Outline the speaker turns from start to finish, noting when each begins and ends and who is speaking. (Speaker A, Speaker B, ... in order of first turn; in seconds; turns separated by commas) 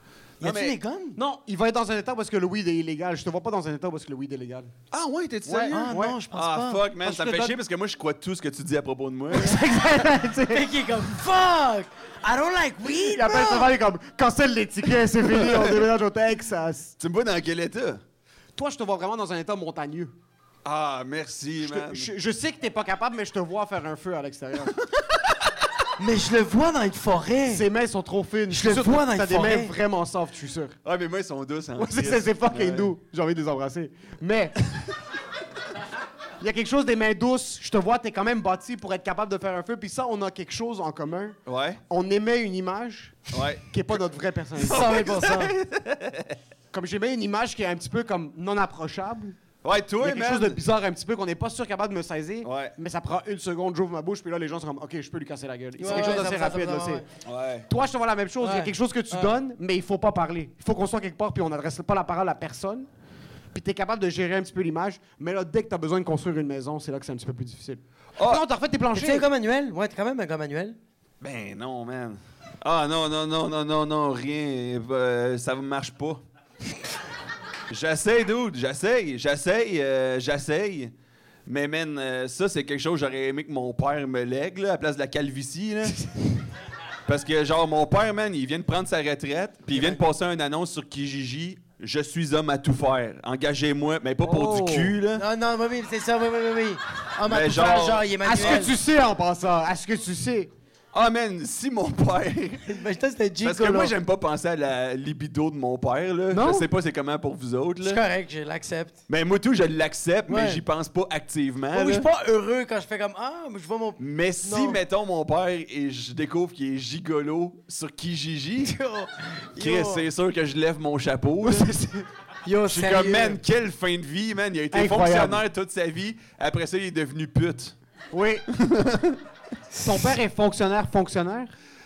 Speaker A: 0.4-1.2, Speaker B: 0.4-0.8, Speaker C: 1.2-4.7, Speaker B: 4.9-9.7, Speaker C: 5.5-6.2, Speaker A: 5.7-6.8, Speaker C: 7.0-7.6, Speaker C: 9.3-10.7, Speaker A: 10.5-13.7, Speaker C: 13.0-16.9, Speaker B: 15.4-15.7, Speaker B: 17.0-18.0, Speaker C: 18.6-20.1, Speaker B: 20.6-22.1, Speaker C: 21.6-24.7, Speaker B: 24.7-25.0, Speaker A: 26.0-27.6, Speaker C: 27.5-30.8, Speaker A: 28.5-29.7, Speaker B: 30.8-32.9, Speaker C: 31.8-34.6, Speaker C: 36.4-41.4, Speaker B: 41.5-41.8, Speaker C: 41.9-45.1, Speaker B: 43.3-44.0, Speaker B: 44.6-46.4, Speaker A: 44.6-45.5, Speaker C: 46.7-49.4, Speaker B: 49.6-50.6, Speaker C: 50.0-57.0, Speaker B: 52.4-52.8, Speaker A: 55.8-57.0, Speaker B: 57.2-57.7, Speaker C: 57.7-62.9, Speaker A: 58.4-59.3, Speaker C: 63.5-69.3, Speaker B: 68.2-68.4, Speaker A: 69.0-70.8, Speaker B: 71.2-76.2, Speaker B: 77.7-80.9, Speaker B: 81.5-86.0, Speaker B: 87.1-95.2, Speaker A: 89.7-90.0, Speaker C: 94.2-95.0, Speaker A: 95.1-98.7, Speaker B: 97.2-98.7, Speaker C: 98.2-100.5, Speaker B: 100.9-102.6, Speaker A: 102.7-103.9, Speaker B: 103.4-108.0, Speaker C: 106.3-106.7, Speaker A: 107.8-109.0, Speaker B: 109.1-112.1, Speaker A: 110.3-110.6, Speaker A: 111.7-114.8, Speaker B: 114.0-118.7, Speaker A: 118.6-120.0, Speaker B: 119.6-121.7, Speaker C: 121.4-122.1, Speaker A: 122.5-123.4, Speaker B: 122.7-127.8, Speaker C: 124.7-125.4, Speaker C: 128.1-128.5, Speaker B: 128.5-129.2, Speaker C: 129.8-131.5